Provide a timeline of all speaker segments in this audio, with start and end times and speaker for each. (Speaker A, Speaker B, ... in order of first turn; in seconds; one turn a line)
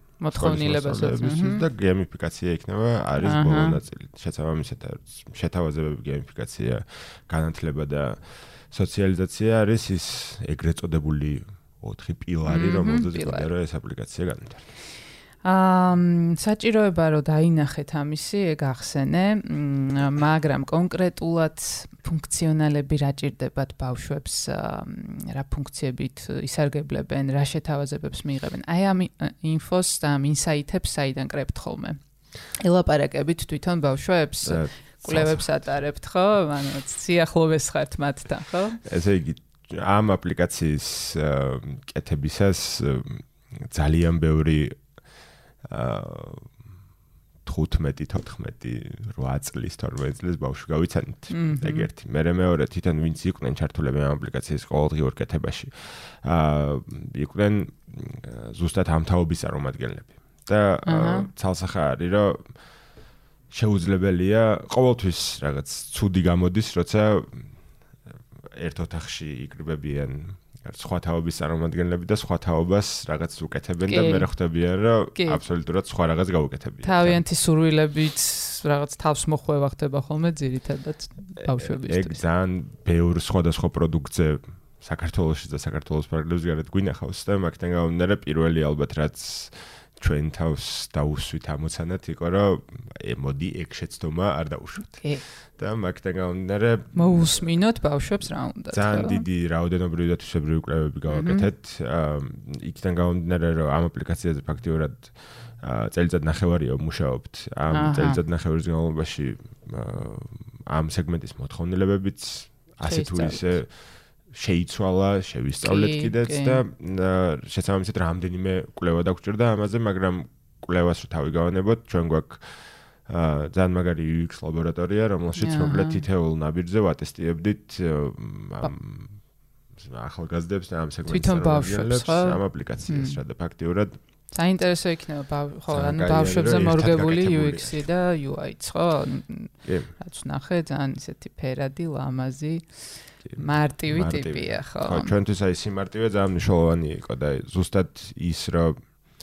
Speaker A: 0.2-1.6
Speaker B: 0.3-14.7
Speaker A: 3.2-3.8
Speaker A: 12.5-13.5
Speaker A: 15.4-38.8
Speaker B: 34.5-35.6
Speaker B: 38.8-44.9
Speaker B: 45.6-46.6
Speaker B: 47.4-62.6
Speaker A: 51.3-51.9
Speaker A: 60.9-61.3
Speaker B: 63.5-67.5
Speaker B: 68.3-77.2
Speaker A: 73.8-74.3
Speaker A: 75.1-75.4
Speaker A: 76.8-82.2
Speaker B: 81.4-97.5
Speaker A: 96.9-99.2
Speaker B: 98.7-129.2
Speaker A: 101.1-101.5
Speaker A: 107.7-108.2
Speaker A: 112.8-113.5
Speaker A: 115.6-116.6
Speaker A: 125.4-126.0
Speaker B: 129.7-134.0
Speaker A: 131.1-133.2
Speaker A: 134.3-142.8
Speaker B: 135.7-137.8
Speaker B: 139.6-139.9
Speaker B: 143.2-148.8
Speaker A: 143.3-145.1